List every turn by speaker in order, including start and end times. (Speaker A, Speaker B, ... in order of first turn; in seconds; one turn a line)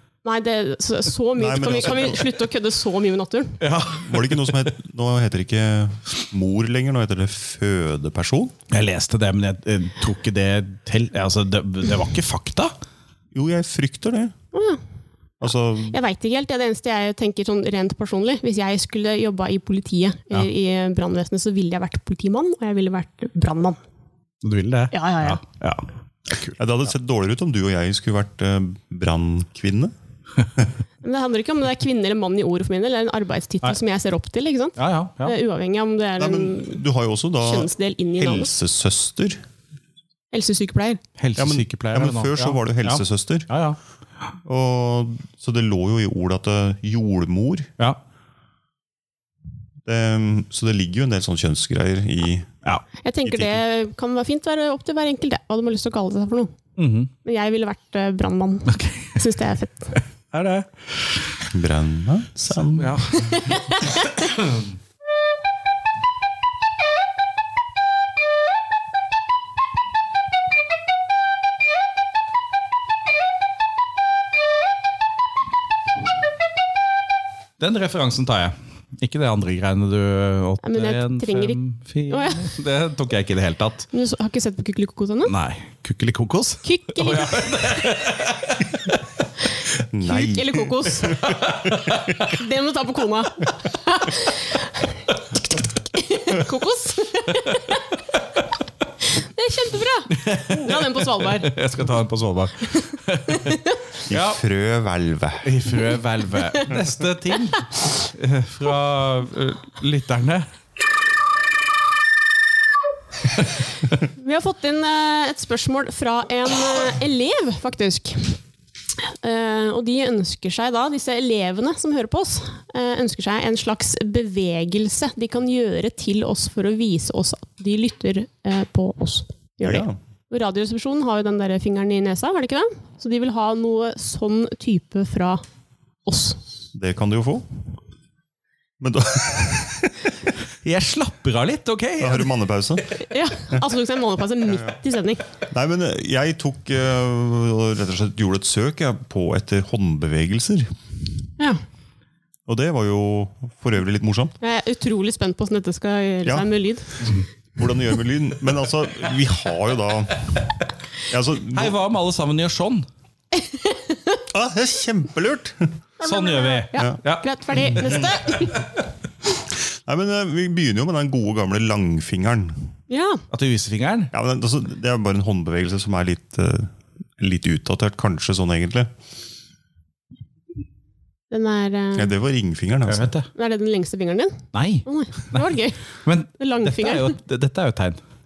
Speaker A: 0.2-3.6
Speaker B: 1.4-2.3
Speaker C: 3.6-4.5
Speaker B: 3.9-8.5
Speaker C: 8.7-12.7
Speaker B: 13.3-14.3
Speaker A: 14.5-14.8
Speaker B: 15.4-16.0
Speaker A: 15.9-23.8
Speaker C: 24.4-26.5
Speaker A: 24.9-25.4
Speaker B: 26.6-29.9
Speaker A: 31.0-36.8
Speaker C: 34.8-35.4
Speaker B: 36.2-39.4
Speaker A: 37.4-38.5
Speaker A: 40.3-41.0
Speaker C: 41.2-43.8
Speaker B: 41.4-43.5
Speaker B: 44.4-47.7
Speaker B: 49.8-52.6
Speaker A: 53.0-56.5
Speaker B: 53.2-53.6
Speaker C: 56.8-57.1
Speaker A: 57.2-60.0
Speaker C: 58.7-59.2
Speaker C: 60.3-61.3
Speaker B: 61.5-63.1
Speaker C: 62.7-64.7
Speaker A: 63.3-63.9
Speaker C: 77.6-83.9
Speaker A: 80.6-82.5
Speaker A: 83.9-85.3
Speaker C: 85.2-89.0
Speaker A: 86.6-87.9
Speaker B: 89.8-92.1
Speaker A: 90.0-91.5
Speaker C: 91.1-92.2
Speaker A: 92.2-97.8
Speaker C: 97.3-97.7
Speaker A: 99.0-101.5
Speaker C: 100.1-104.4
Speaker A: 103.3-103.8
Speaker B: 104.1-105.7
Speaker C: 105.4-110.5
Speaker A: 114.0-118.4
Speaker A: 119.0-135.4
Speaker B: 129.6-129.9
Speaker A: 136.0-136.4
Speaker B: 136.7-137.5
Speaker B: 138.8-140.3
Speaker C: 140.6-142.3
Speaker B: 142.0-142.9
Speaker A: 143.1-145.2
Speaker B: 144.5-144.8
Speaker B: 145.5-150.7
Speaker B: 152.5-154.3
Speaker A: 154.4-157.1
Speaker B: 156.2-156.5
Speaker B: 157.6-160.4
Speaker B: 161.1-161.8
Speaker C: 161.5-162.8
Speaker A: 163.3-164.2
Speaker B: 164.3-165.7
Speaker A: 166.0-168.7
Speaker C: 166.0-168.0
Speaker B: 167.8-168.1
Speaker B: 169.5-172.7
Speaker A: 172.9-173.2
Speaker C: 173.3-174.1
Speaker B: 174.1-178.9
Speaker A: 181.3-182.1
Speaker B: 181.9-183.1
Speaker C: 182.9-183.3
Speaker A: 183.3-185.8
Speaker C: 184.5-185.4
Speaker C: 186.0-188.0
Speaker A: 186.4-187.1